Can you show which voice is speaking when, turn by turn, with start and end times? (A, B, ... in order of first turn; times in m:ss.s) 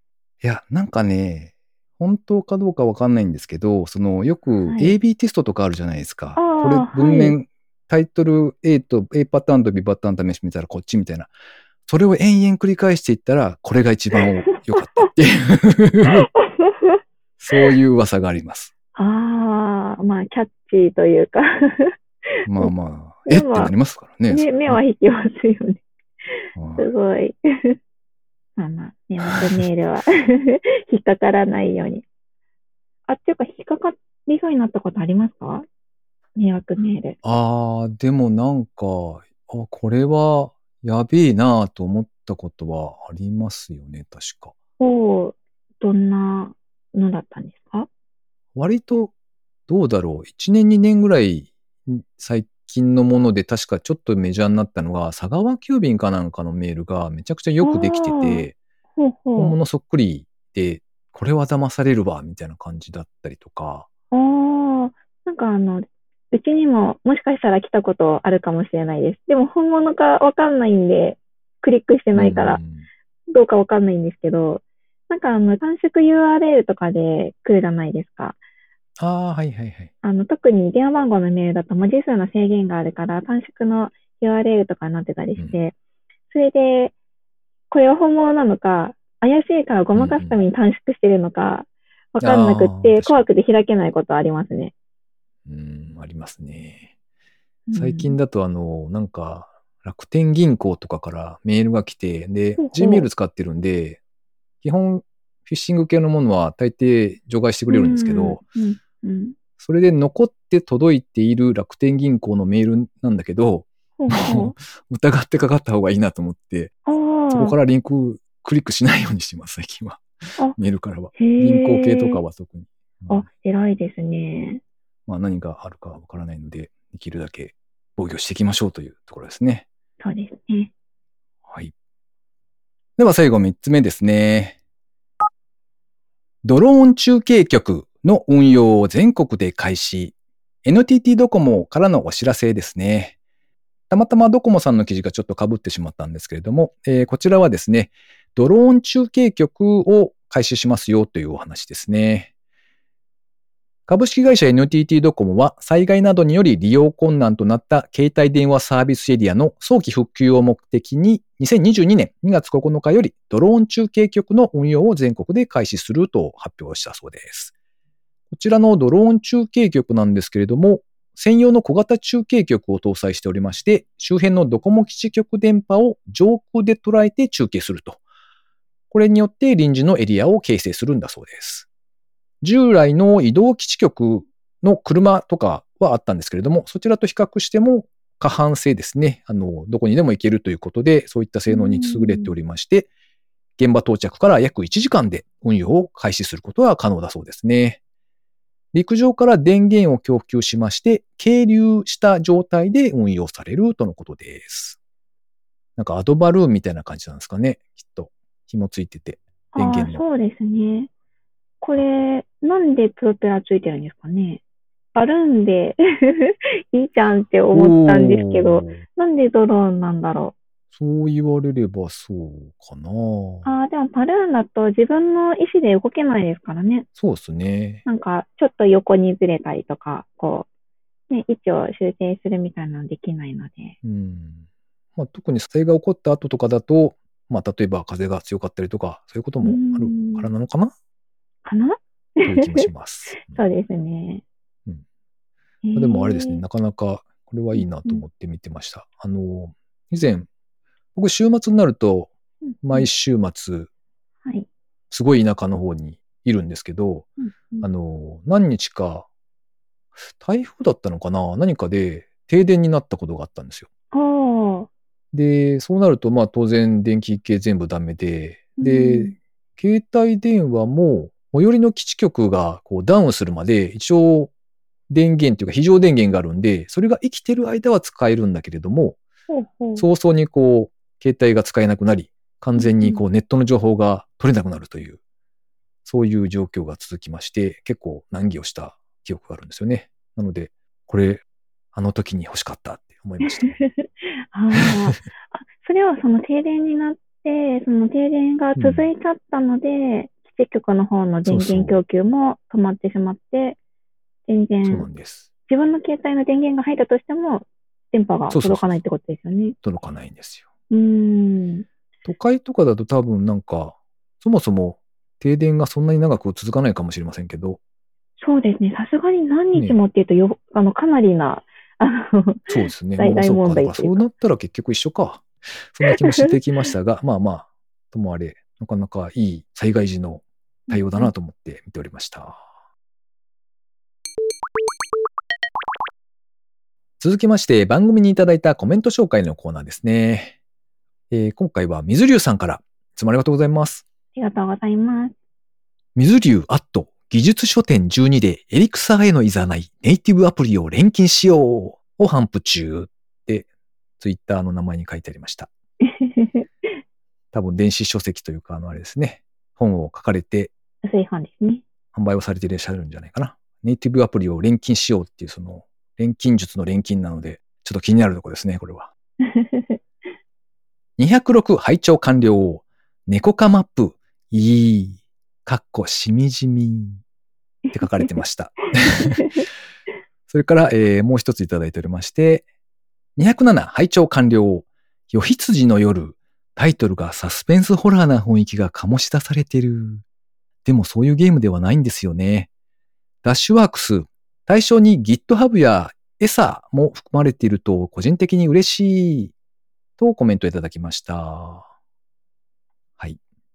0:00.4-0:11.3 A
0:04.6-0:04.9 B
0:06.4-0:07.4 B
0:11.9-0:16.3 A
0:16.4-0:17.0 B
0:17.4-0:18.7 A
0:18.9-0:21.9 B
0:22.4-0:24.8 A
0:23.3-0:23.7 B
0:24.3-0:25.8 B
0:26.6-0:26.9 A
0:26.8-0:27.8 B
0:28.6-0:32.0 B
0:29.2-0:29.6 A
0:33.1-0:35.6 B
0:36.4-0:37.2 B
0:37.2-0:44.5 A
0:44.8-0:47.9 B
0:48.6-0:49.1 A
0:49.7-0:58.6 A
0:57.6-0:58.4 B
0:59.0-0:59.5 B
0:59.4-1:03.9 A
1:04.1-1:12.6 B
1:12.1-1:12.9 A
1:13.3-1:18.4 B
1:19.0-1:19.9 A
1:20.0-1:25.7 B
1:26.3-1:26.9 B
1:27.7-1:34.7 B
1:29.9-1:30.4 A
1:32.2-1:33.2 A
1:35.4-1:36.9 A
1:37.7-1:38.2 B
1:37.7-1:44.0 A
1:42.6-1:43.1 B
1:44.6-1:48.4 A
1:47.7-1:49.4 B
1:49.6-1:56.7 A
1:54.0-1:54.5 B
1:56.8-1:57.6 B
1:57.3-2:03.2 A
2:01.2-2:02.2 B
2:03.1-2:04.6 B
2:05.1-2:09.7 A
2:10.0-2:10.7 B
2:11.5-2:11.7 A
2:13.0-2:14.6 A
2:16.4-2:23.2 A
2:23.9-2:32.3 A
2:33.9-2:47.5 A
2:48.3-2:58.0 A
2:58.9-3:01.7 A
3:02.4-3:12.9 A
3:11.5-3:12.3 B
3:13.6-3:17.8 A
3:18.7-3:24.8 A
3:25.8-3:30.0 A
3:29.5-3:30.9 B
3:31.6-3:34.4 B
3:31.7-3:32.0 A
3:34.9-3:40.3 B
3:37.5-3:38.8 A
3:40.7-3:43.5 A
3:43.4-3:46.9 B
3:47.0-3:47.8 A
3:47.8-3:50.5 B
3:51.1-3:53.8 B
3:53.8-3:54.4 A
3:55.0-4:00.7 A
3:59.4-4:00.3 B
4:01.4-4:04.2 B
4:02.2-4:03.4 A
4:05.6-4:06.4 B
4:05.7-4:10.3 A
4:07.5-4:08.0 B
4:10.9-4:13.7 A
4:14.9-4:17.1 A
4:17.2-4:17.7 B
4:17.6-4:19.1 A
4:20.0-4:23.7 A
4:23.9-4:24.7 B
4:25.1-4:34.3 A
4:28.6-4:29.1 B
4:34.9-4:39.0 A
4:39.3-4:39.8 B
4:39.8-4:45.0 A
4:42.6-4:43.0 B
4:45.8-4:53.6 A
4:53.4-5:03.6 B
4:54.5-4:54.9 A
4:58.6-4:58.9 A
5:01.2-5:01.8 A
5:04.3-5:04.9 B
5:04.6-5:05.3 A
5:05.5-5:09.6 B
5:08.3-5:08.8 A
5:09.6-5:10.4 A
5:10.7-5:11.6 B
5:12.0-5:17.6 A
5:18.2-5:24.0 B
5:22.5-5:32.5 A
5:26.0-5:26.3 B
5:30.7-5:31.1 B
5:37.0-5:40.4 A
5:41.1-5:43.8 A
5:44.1-5:45.1 B
5:46.0-5:53.5 A
5:54.0-5:55.5 A
5:55.8-5:56.7 B
5:57.3-6:00.5 A
6:00.8-6:01.6 B
6:01.9-6:08.9 A
6:09.2-6:09.8 B
6:11.0-6:17.0 A
6:17.7-6:18.1 B
6:17.7-6:19.3 A
6:18.9-6:19.4 B
6:20.3-6:22.4 A
6:23.2-6:30.0 A
6:30.6-6:32.5 A
6:33.2-6:39.3 A
6:40.0-6:41.7 A